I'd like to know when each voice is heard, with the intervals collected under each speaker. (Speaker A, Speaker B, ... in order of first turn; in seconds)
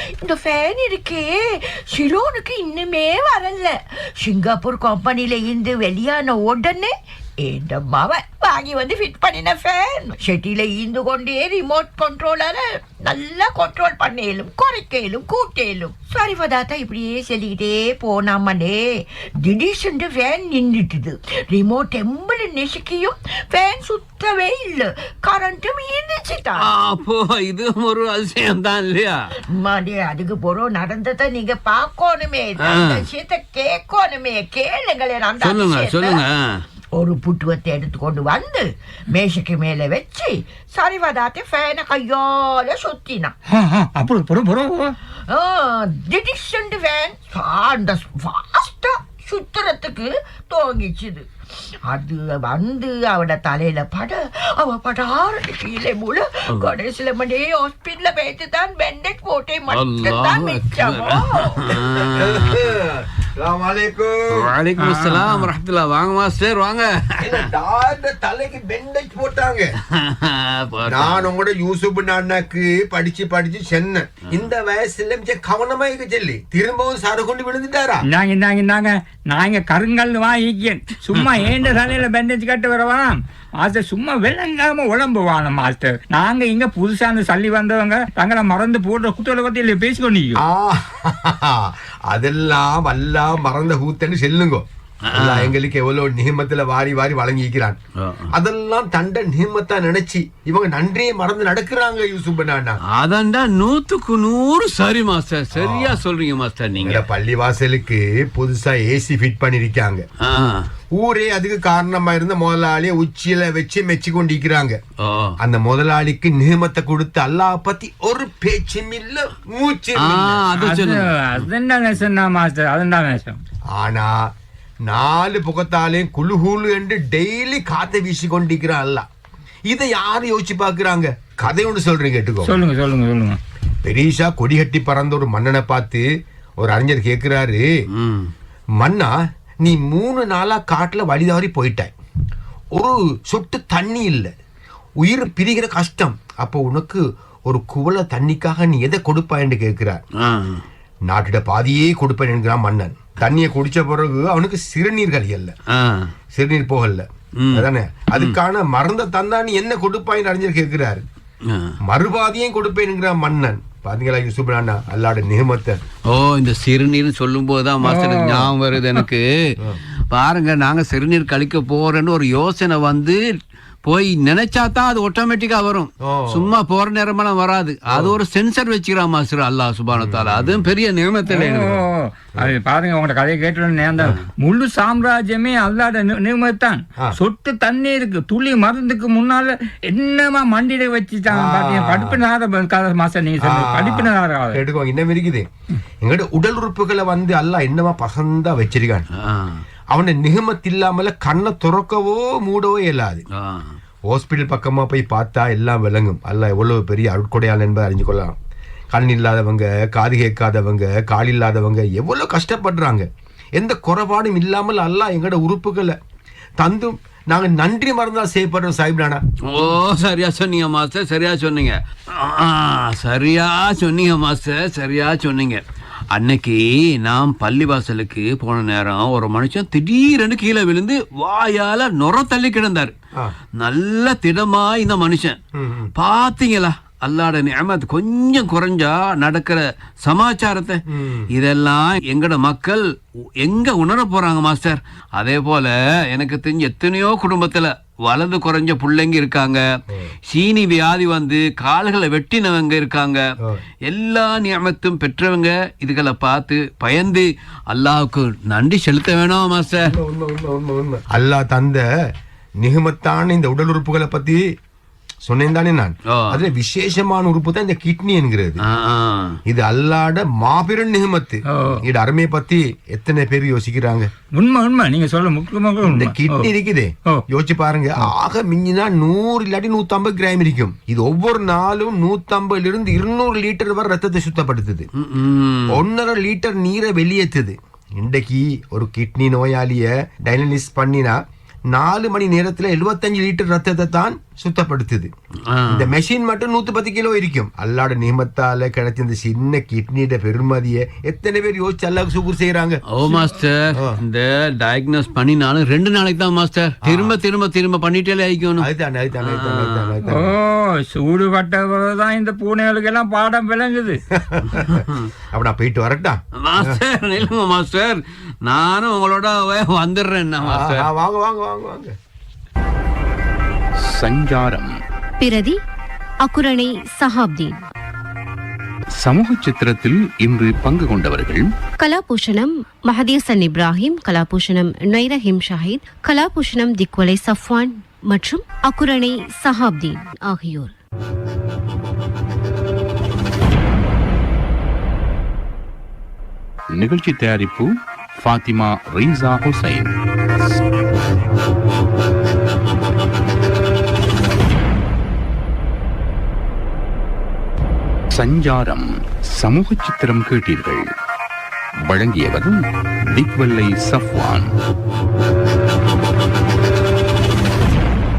Speaker A: 0.2-6.9, 7.4-18.8, 19.4-26.7, 29.5-36.2, 36.9-43.3, 45.3-51.2, 51.9-61.7
Speaker B: 26.6-29.1, 32.6-33.0, 35.4-36.4, 59.7-62.8, 64.3-67.4, 69.9-71.3, 95.1-95.5, 98.0-98.3, 102.9-107.0, 110.2-110.6, 115.0-115.3, 120.0-121.5, 137.9-138.3, 150.2-150.6, 155.7-156.1, 166.1-169.5, 170.1-173.2, 173.9-181.8, 199.2-199.6, 203.3-203.7, 219.5-225.6, 226.1-232.9, 233.6-235.4, 236.0-240.8, 241.3-242.8, 243.4-249.6, 250.3-253.2, 253.9-259.9, 268.7-269.3, 285.0-285.8, 295.5-295.9, 302.9-308.6, 309.2-309.9, 314.5-315.1, 316.4-320.9
Speaker C: 43.5-44.9, 64.8-65.5, 78.1-90.4, 120.5-123.4, 132.4-133.4, 167.8-169.0, 181.3-194.6, 271.5-271.8, 274.4-276.5, 310.1-314.0
Speaker D: 62.2-64.5, 67.2-69.7, 70.9-78.0, 90.4-97.8, 98.3-102.8, 105.5-106.0, 106.8-110.0, 110.9-114.8, 115.4-120.5, 123.8-124.2, 124.9-129.1, 129.7-132.6, 133.8-136.1, 136.6-137.6, 138.8-141.9, 142.8-144.3, 145.0-150.0, 151.1-155.5, 156.3-161.0, 161.9-165.8, 176.0-176.5, 177.9-178.2, 179.9-180.7, 191.3-192.2, 193.4-195.5, 196.0-199.1, 199.9-203.2, 204.1-208.4, 208.9-216.0, 216.6-219.2, 235.5-235.9, 240.9-241.3, 259.8-261.8, 262.6-264.4, 265.2-268.6, 269.5-274.1, 275.8-284.9, 285.7-291.2, 291.7-295.1, 295.7-302.8, 306.8-307.2, 308.6-310.3, 314.1-316.8, 320.4-321.9
Speaker E: 323.8-324.7, 329.0-331.4, 346.7-349.9, 358.1-360.8, 361.9-362.6, 363.1-364.5
Speaker F: 325.2-325.6, 326.2-327.6, 331.8-340.7